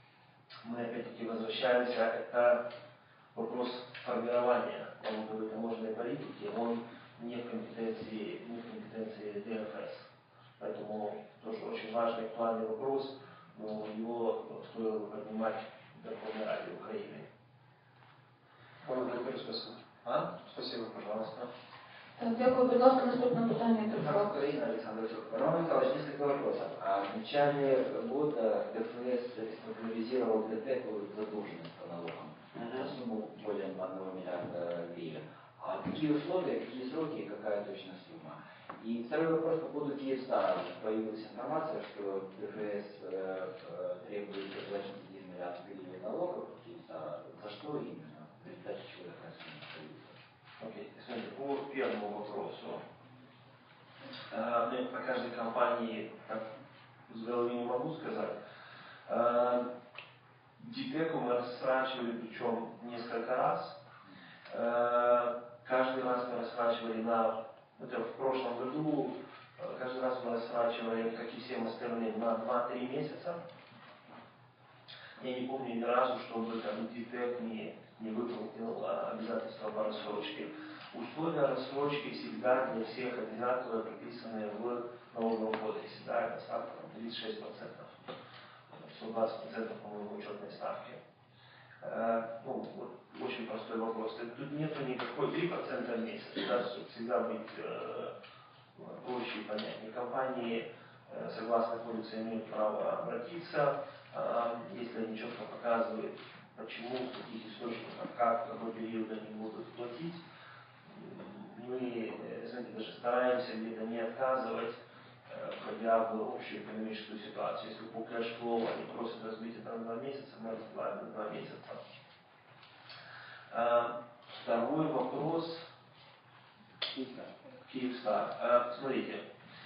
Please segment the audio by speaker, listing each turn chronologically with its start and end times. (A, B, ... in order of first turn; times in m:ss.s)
0:00.6-0:02.6 A
0:03.3-0:17.3 A
0:18.8-0:19.8 B
0:20.0-0:20.4 A
0:20.4-0:21.4 B
0:22.2-0:24.2 C
0:23.9-0:50.2 D
0:32.5-0:32.9 A
0:50.6-0:52.8 A
0:54.3-0:56.4 A
0:57.1-0:58.4 A
0:59.1-0:59.7 A
1:00.6-1:03.8 A
1:04.5-1:13.4 A
1:15.2-1:28.0 A
1:28.7-1:31.0 A
1:31.8-1:38.2 A
1:38.8-1:50.2 A
1:50.9-2:01.8 A
2:03.5-2:05.7 A
2:06.9-2:09.2 A